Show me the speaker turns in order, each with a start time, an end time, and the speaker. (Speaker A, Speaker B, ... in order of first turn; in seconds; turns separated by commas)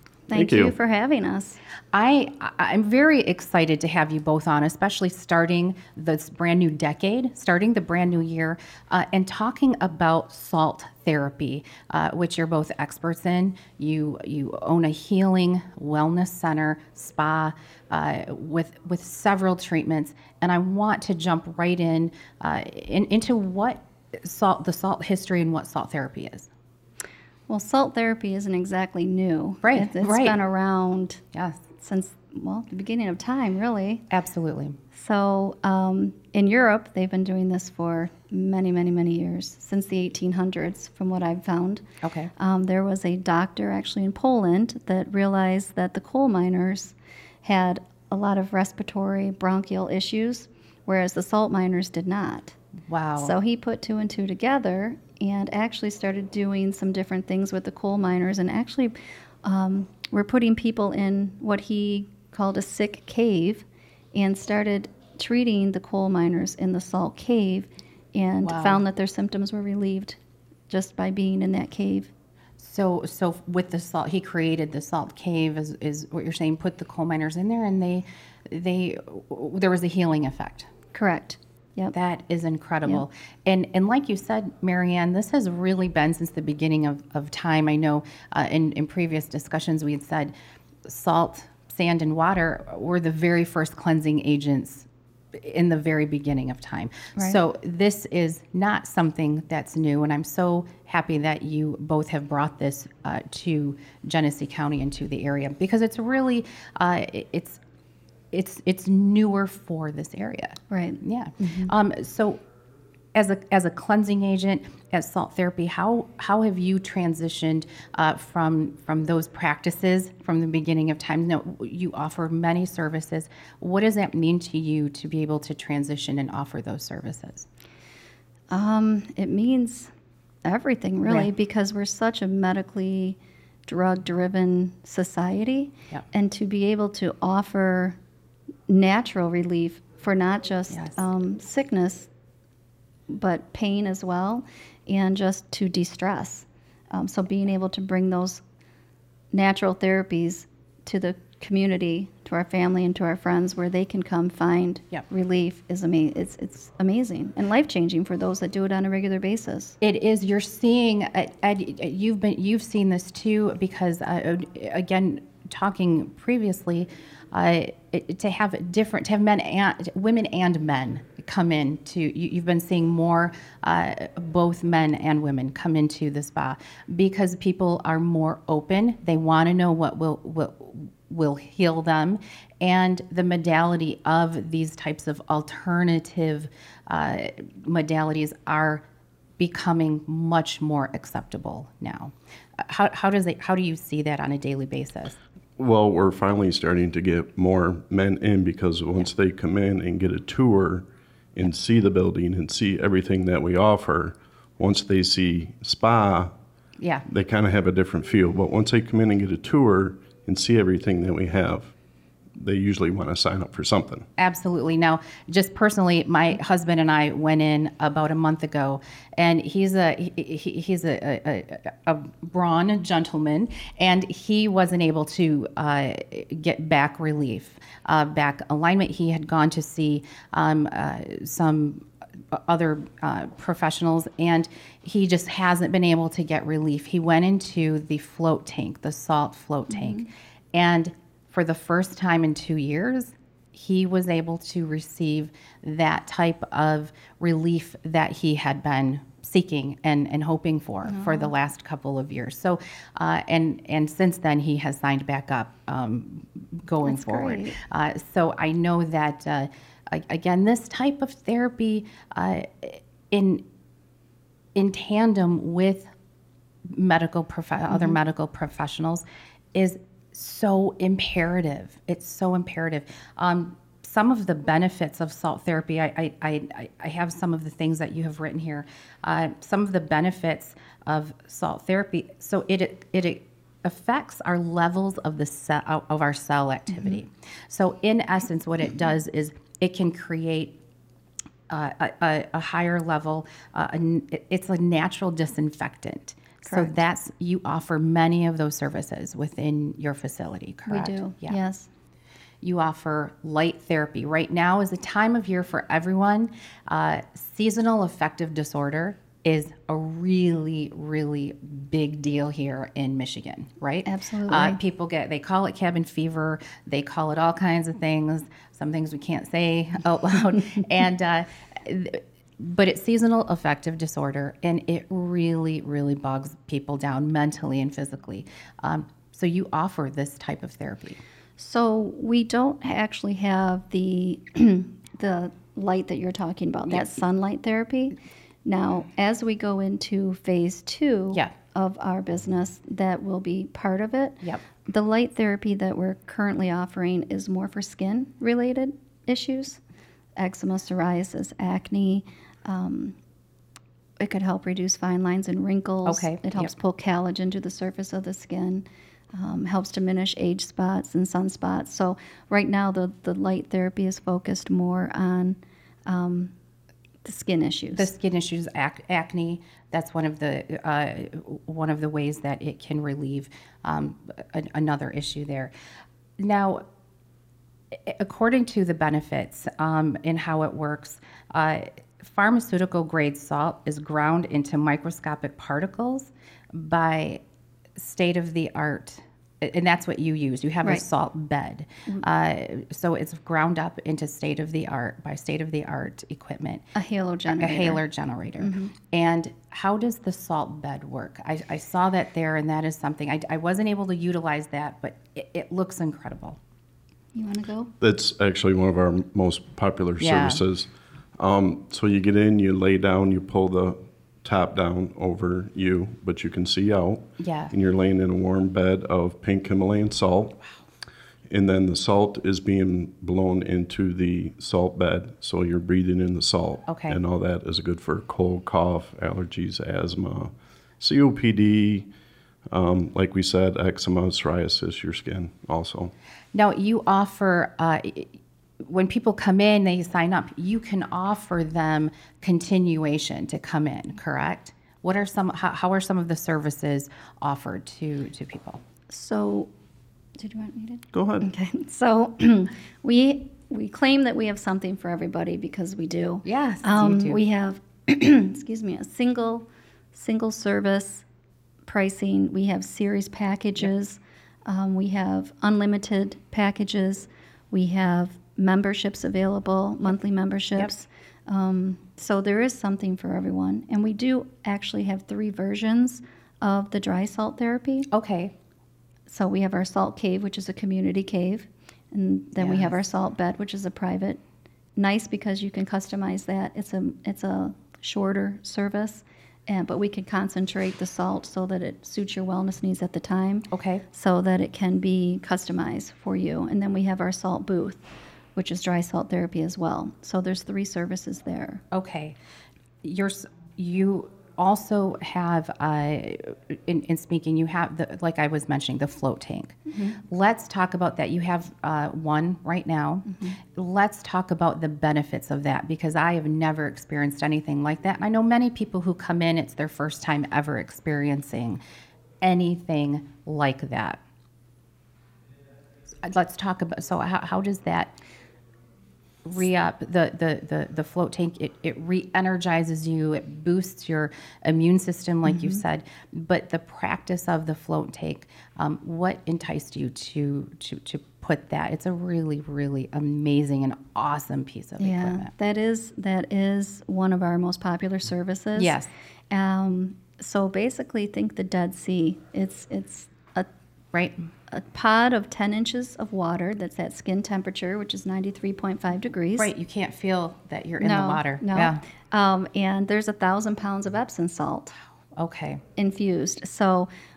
Speaker A: 0.3-1.6, Speaker B: 0.3-0.7, Speaker C: 1.9-26.5, Speaker A: 27.5-31.2, Speaker C: 29.6-30.4, Speaker C: 31.3-31.6, Speaker A: 31.8-34.0, Speaker C: 34.1-34.8, Speaker A: 34.9-41.8, Speaker C: 42.0-42.3, Speaker A: 42.4-52.5, Speaker C: 52.9-53.4, Speaker A: 53.2-72.1, Speaker C: 68.4-68.8, Speaker C: 72.6-80.7, Speaker A: 80.9-81.9, Speaker C: 81.9-90.3, Speaker C: 90.9-107.6, Speaker C: 108.3-112.4, Speaker A: 110.7-111.7, Speaker C: 113.1-127.5, Speaker A: 128.5-129.9, Speaker A: 130.4-138.0, Speaker C: 131.0-131.3, Speaker A: 138.7-142.1, Speaker C: 140.7-140.9, Speaker A: 143.1-148.4, Speaker A: 149.3-159.8, Speaker C: 159.8-188.8, Speaker C: 189.4-192.1, Speaker C: 192.7-195.2, Speaker B: 195.6-206.3, Speaker C: 206.8-207.0, Speaker B: 207.1-211.7, Speaker B: 212.3-214.1, Speaker C: 214.2-263.4, Speaker A: 239.7-240.1, Speaker A: 250.8-251.3, Speaker A: 256.8-257.6, Speaker C: 264.5-265.9, Speaker C: 266.7-290.6, Speaker A: 267.7-268.0, Speaker A: 286.7-287.0, Speaker C: 291.5-301.4, Speaker A: 296.4-296.7, Speaker A: 300.7-301.7, Speaker C: 302.4-331.0, Speaker A: 313.8-314.6, Speaker A: 331.4-349.6, Speaker C: 336.7-337.0, Speaker A: 350.1-352.9, Speaker A: 354.0-366.3, Speaker C: 355.9-356.5, Speaker A: 367.0-367.9, Speaker C: 367.7-375.5, Speaker C: 376.2-376.6, Speaker C: 377.7-387.2, Speaker C: 387.8-396.6, Speaker A: 396.7-397.8, Speaker C: 397.3-406.4, Speaker A: 398.4-398.7, Speaker A: 407.1-407.7, Speaker B: 407.8-420.4, Speaker C: 410.0-410.4, Speaker C: 417.2-417.5, Speaker B: 421.3-431.9, Speaker C: 426.7-427.0, Speaker B: 432.5-435.9, Speaker C: 436.3-448.6, Speaker A: 448.9-449.5, Speaker A: 450.2-461.0, Speaker B: 450.9-451.3, Speaker C: 456.2-457.2, Speaker A: 461.6-477.9, Speaker C: 477.9-478.3, Speaker A: 479.1-484.2, Speaker C: 482.4-482.8, Speaker A: 484.8-497.8, Speaker C: 493.5-493.8, Speaker A: 498.3-501.6, Speaker C: 501.7-502.1, Speaker C: 502.8-521.6, Speaker A: 509.7-510.0, Speaker A: 513.1-513.4, Speaker C: 522.2-524.0, Speaker C: 526.0-527.9, Speaker C: 529.2-545.3, Speaker A: 535.2-535.6, Speaker A: 544.8-548.8, Speaker C: 548.5-548.9, Speaker A: 549.3-553.5, Speaker C: 553.9-554.2, Speaker A: 554.5-559.5, Speaker C: 559.4-561.8, Speaker A: 560.8-564.8, Speaker C: 565.1-565.6, Speaker A: 565.8-566.9